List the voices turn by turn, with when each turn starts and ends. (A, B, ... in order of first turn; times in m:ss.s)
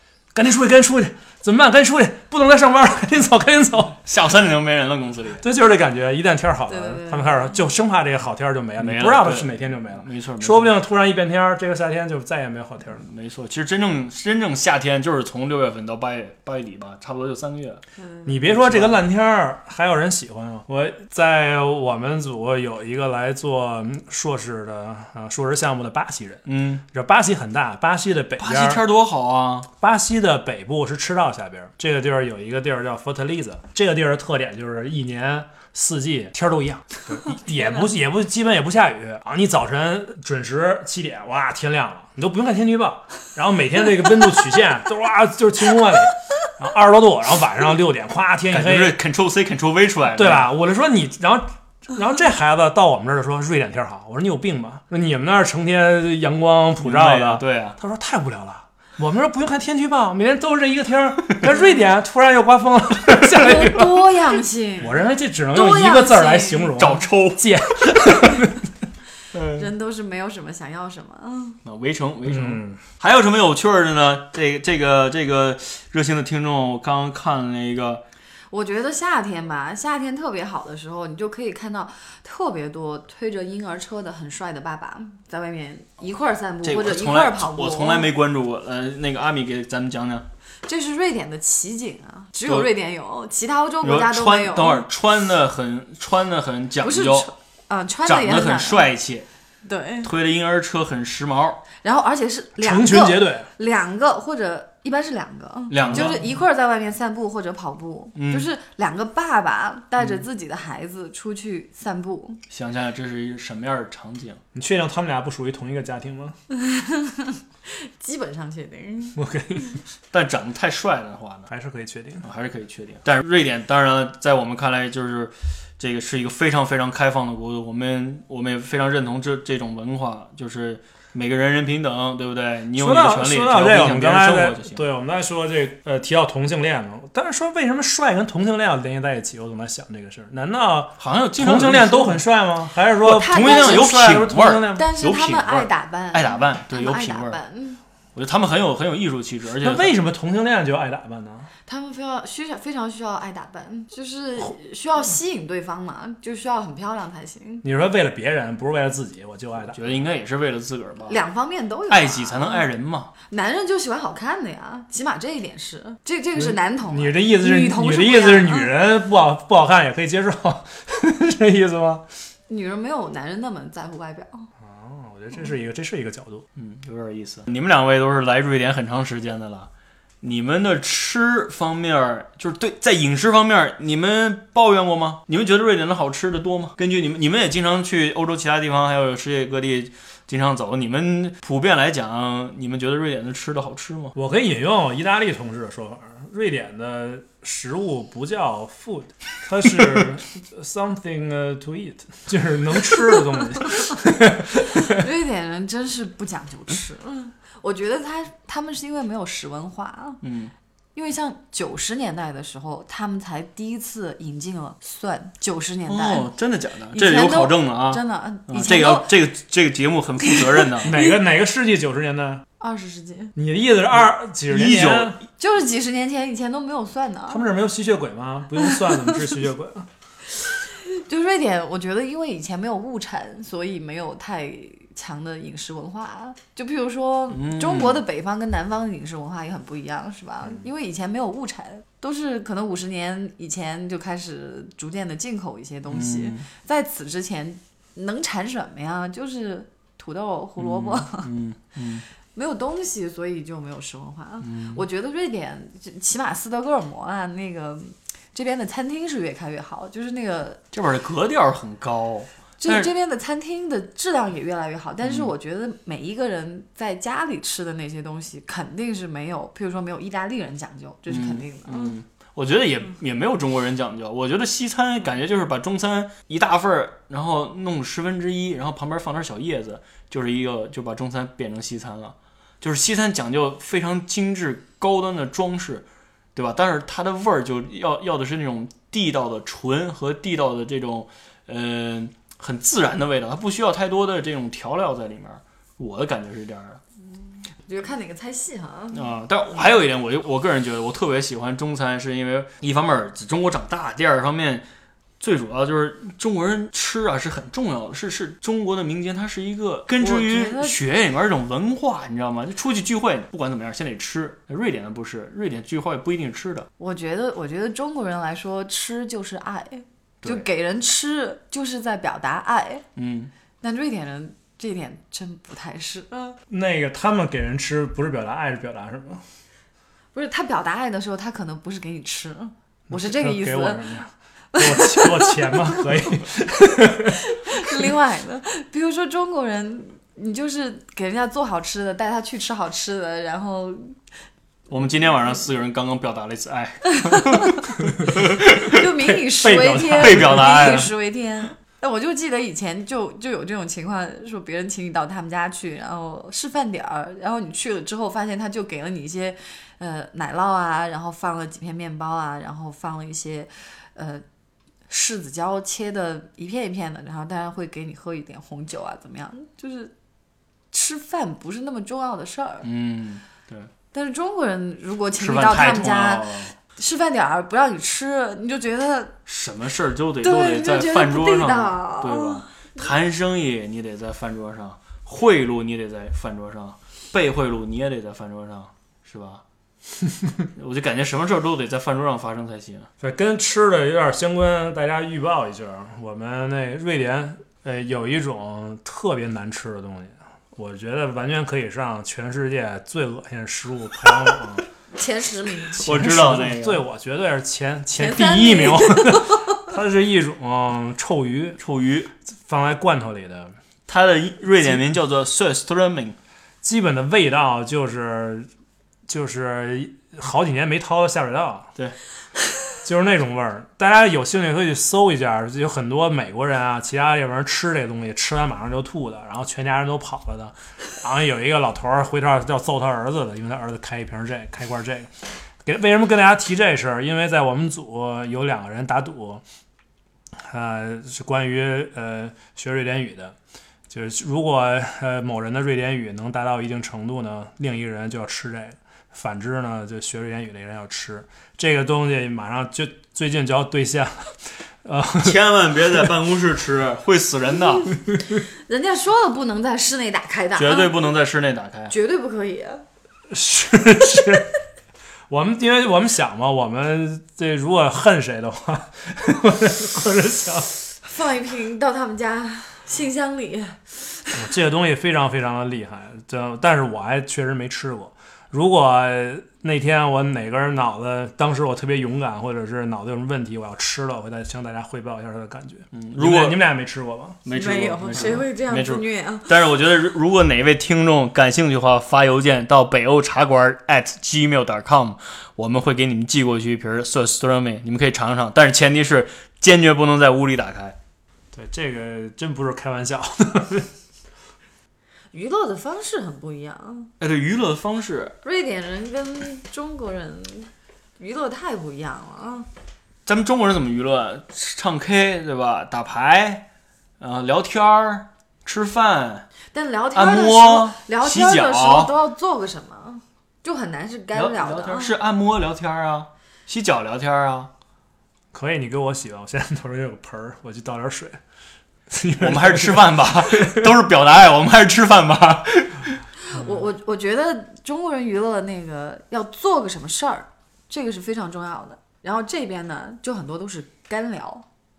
0:00.3-0:04.0 A
0:04.0-0:05.4 B
0:05.4-0:13.0 A
0:06.7-0:07.6 C
0:08.8-0:10.8 B
0:13.0-0:17.8 B
0:18.2-0:28.8 A
0:18.4-0:19.0 B
0:26.5-0:26.8 B
0:28.4-0:29.7 B
0:29.8-0:49.0 A
0:48.5-0:50.5 B
0:50.2-1:04.1 A
0:56.8-0:57.8 B
1:03.2-1:05.0 C
1:04.8-1:08.7 A
1:05.5-1:06.8 C
1:06.8-1:07.5 B
1:09.3-1:09.7 B
1:09.5-1:11.6 C
1:11.6-1:18.0 B
1:12.3-1:12.8 A
1:18.5-1:28.1 C
1:26.6-1:30.3 B
1:30.7-1:34.9 C
1:33.8-1:37.3 B
1:36.8-1:38.9 C
1:38.0-1:39.3 B
1:39.6-1:40.1 C
1:40.0-1:41.6 B
1:41.8-1:52.4 C
1:42.6-1:43.5 A
1:45.7-1:46.2 B
1:45.8-1:46.2 A
1:48.2-1:48.5 B
1:52.5-1:54.4 B
1:54.5-1:56.4 A
1:56.5-1:59.2 C
1:59.2-1:59.8 A
2:00.1-2:01.5 B
2:01.5-2:02.2 A
2:02.2-2:14.8 B
2:12.8-2:24.9 A
2:21.0-2:22.2 B
2:23.0-2:27.4 B
2:23.1-2:24.0 C
2:24.7-2:27.8 C
2:28.2-2:29.9 B
2:29.6-2:31.5 A
2:31.7-2:37.6 C
2:37.6-2:40.0 A
2:39.7-2:41.2 B
2:41.1-2:42.7 C
2:41.9-2:43.1 B
2:43.3-2:48.7 C
2:46.4-2:52.1 A
2:52.5-2:54.5 C
2:54.6-2:56.4 A
2:56.6-2:59.7 B
3:00.2-3:14.2 B
3:14.2-3:25.0 A
3:24.6-3:30.2 C
3:30.2-3:30.5 B
3:31.0-3:36.3 C
3:35.9-3:40.9 B
3:36.9-3:39.1 C
3:40.2-3:41.2 C
3:40.8-3:42.4 A
3:42.6-3:43.3 C
3:43.4-3:45.2 A
3:44.5-3:45.2 B
3:45.4-3:47.4 C
3:47.3-3:49.9 A
3:50.5-4:11.3 C
3:57.3-3:58.0 B
4:05.9-4:06.5 B
4:10.6-4:12.1 B
4:12.4-4:20.6 C
4:14.4-4:14.8 B
4:20.7-4:22.9 B
4:22.6-4:32.0 C
4:25.0-4:25.3 B
4:31.1-4:56.8 B
4:57.6-4:59.1 C
4:58.9-5:04.7 B
5:05.2-5:16.7 B
5:10.0-5:10.8 C
5:16.8-5:22.8 C
5:23.0-5:23.3 B
5:23.6-5:26.4 C
5:26.5-5:29.2 A
5:30.1-5:33.8 C
5:32.9-5:37.6 A
5:34.5-5:35.9 C
5:37.1-5:44.0 C
5:44.7-5:48.9 B
5:46.9-5:47.6 C
5:48.4-6:04.2 C
5:49.0-5:50.8 A
5:50.0-5:50.9 B
6:04.9-6:09.9 C
6:10.7-6:12.7 C
6:12.6-6:13.7 B
6:13.9-6:19.2 C
6:15.2-6:16.5 B
6:19.3-6:29.4 B
6:20.2-6:22.5 C
6:30.6-6:32.9 B
6:33.0-6:44.6 A
6:45.0-6:45.8 C
6:45.8-6:51.6 A
6:45.8-6:46.8 B
6:48.0-6:49.6 C
6:51.6-6:52.1 B
6:52.3-6:53.6 A
6:53.9-6:56.2 B
6:56.6-6:58.5 A
6:59.1-7:01.7 A
7:02.8-7:15.1 A
7:15.6-7:19.4 A
7:20.4-7:23.4 A
7:23.9-7:35.4 A
7:35.2-7:37.9 B
7:38.5-7:41.0 C
7:40.6-7:41.9 B
7:41.9-7:42.8 C
7:43.3-7:44.5 A
7:45.3-7:50.7 A
7:51.0-7:54.4 C
7:54.3-8:07.4 A
8:05.9-8:06.6 B
8:07.4-8:21.0 B
8:07.5-8:09.6 C
8:21.5-8:23.9 A
8:25.3-8:27.1 C
8:27.2-8:28.4 B
8:28.4-8:32.7 C
8:33.3-8:36.7 B
8:37.2-8:39.5 B
8:39.7-8:45.2 C
8:40.1-8:42.2 B
8:44.3-8:47.7 B
8:48.5-8:51.4 A
8:52.1-8:53.9 A
8:52.4-8:56.2 B
8:56.4-9:04.6 C